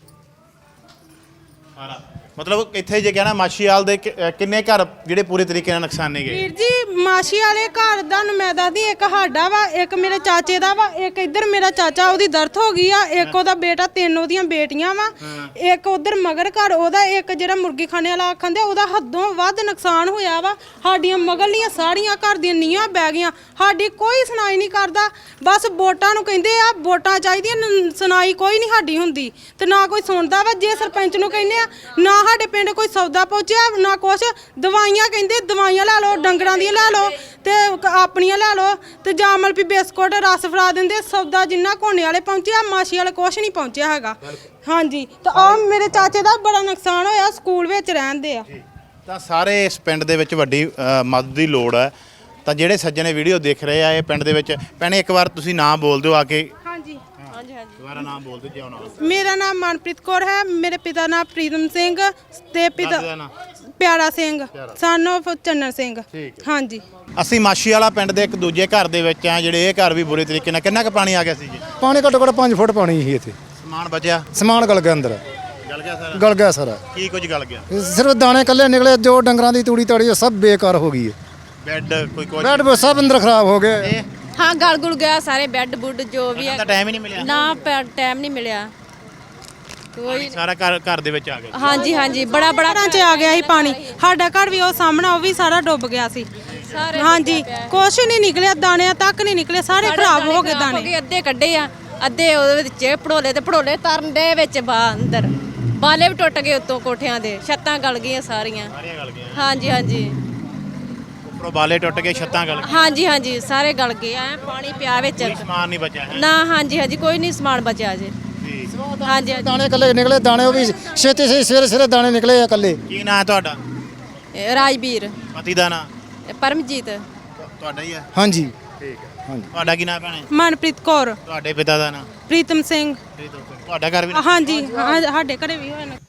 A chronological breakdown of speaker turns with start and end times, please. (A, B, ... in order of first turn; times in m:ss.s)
0:01.8-0:06.5 A
0:06.3-0:15.1 B
0:13.2-0:13.4 A
0:15.2-0:15.5 A
0:15.7-0:48.4 B
0:44.2-0:44.5 A
0:45.3-0:46.2 A
0:48.4-0:51.9 A
0:52.5-0:56.5 A
0:56.7-0:57.0 B
0:57.2-0:59.1 A
0:57.3-0:57.8 C
0:59.0-1:02.9 B
1:02.8-1:03.3 A
1:03.8-1:06.8 B
1:04.5-1:04.8 A
1:06.1-1:06.5 A
1:07.2-1:11.6 A
1:11.8-1:13.4 D
1:13.6-1:14.3 A
1:14.3-1:15.2 D
1:15.6-1:16.2 A
1:16.1-1:16.8 D
1:16.9-1:17.7 A
1:17.7-1:21.2 D
1:21.6-1:22.8 A
1:22.4-1:24.0 D
1:23.8-1:24.1 A
1:24.4-1:28.7 C
1:26.3-1:27.3 A
1:30.0-1:30.3 C
1:30.0-1:32.0 A
1:31.5-1:34.0 C
1:32.3-1:36.2 B
1:36.5-1:37.0 A
1:36.6-1:37.8 C
1:37.0-1:40.9 B
1:39.8-1:48.7 C
1:48.7-1:49.5 A
1:49.4-1:50.2 C
1:51.2-1:52.8 A
1:52.6-1:55.4 C
1:55.2-1:56.3 A
1:56.1-1:58.2 C
1:58.4-1:58.7 A
1:58.7-2:02.8 D
1:59.0-1:59.5 C
2:02.9-2:03.6 A
2:04.3-2:05.1 C
2:05.3-2:05.9 A
2:06.3-2:07.1 C
2:07.4-2:08.1 A
2:08.1-2:08.5 D
2:08.8-2:10.3 A
2:10.3-2:11.2 B
2:11.3-2:12.1 A
2:12.3-2:12.9 B
2:13.2-2:15.0 A
2:14.2-2:16.0 B